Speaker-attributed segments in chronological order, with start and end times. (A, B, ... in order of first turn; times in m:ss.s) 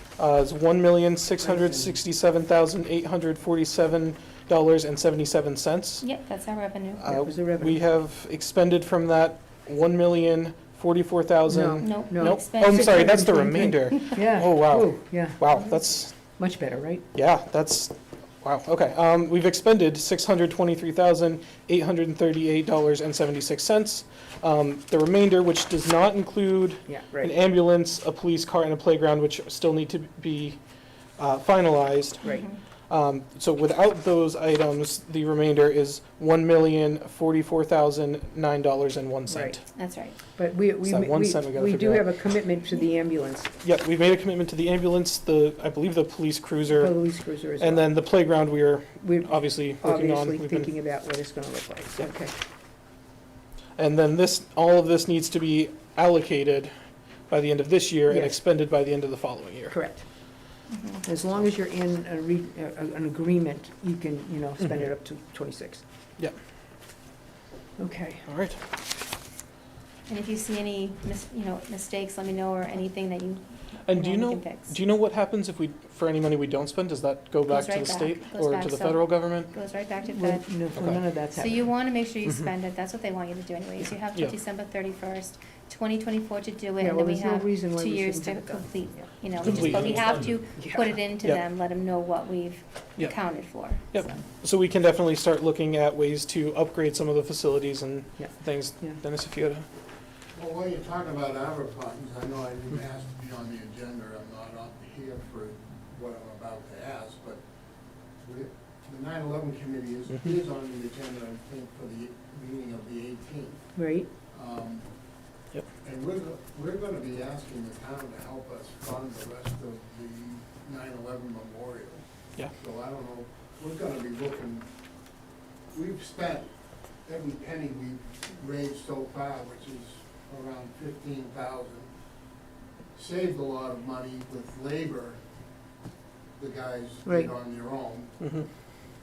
0:00.2-0:06.0 A
0:01.4-0:02.0 B
0:06.0-0:07.1 C
0:07.0-0:16.1 A
0:07.1-0:07.8 B
0:11.5-0:15.8 B
0:11.8-0:13.6 C
0:16.3-0:17.0 B
0:17.1-0:30.6 A
0:26.9-0:27.3 B
0:31.2-0:32.4 A
0:32.2-0:32.6 C
0:32.9-0:39.6 A
0:39.3-0:39.6 B
0:39.7-0:40.2 C
0:40.4-0:43.5 B
0:40.8-0:42.1 A
0:43.6-0:47.0 A
0:46.7-0:47.9 B
0:47.6-0:50.7 A
0:49.0-0:52.3 B
0:53.8-0:56.7 A
0:57.3-0:59.8 A
0:58.1-0:58.4 B
0:59.7-1:00.0 B
1:00.7-1:01.0 C
1:01.0-1:05.8 B
1:07.8-1:08.3 B
1:08.3-1:08.6 A
1:10.1-1:14.8 C
1:13.8-1:19.5 A
1:17.5-1:20.4 C
1:20.1-1:21.6 B
1:20.7-1:21.0 A
1:21.4-1:34.2 C
1:26.8-1:29.1 B
1:29.4-1:30.1 A
1:30.6-1:30.9 B
1:33.0-1:39.7 A
1:38.2-1:39.0 B
1:40.3-1:47.4 D
1:48.2-1:53.6 D
1:53.8-1:54.1 B
1:54.3-1:54.9 D
1:55.8-2:02.0 D
2:02.5-2:04.7 D
2:05.7-2:06.5 D
2:07.0-2:11.9 D
2:13.0-2:15.2 D
2:16.4-2:18.1 D
2:17.0-2:17.3 B
2:18.2-2:18.4 A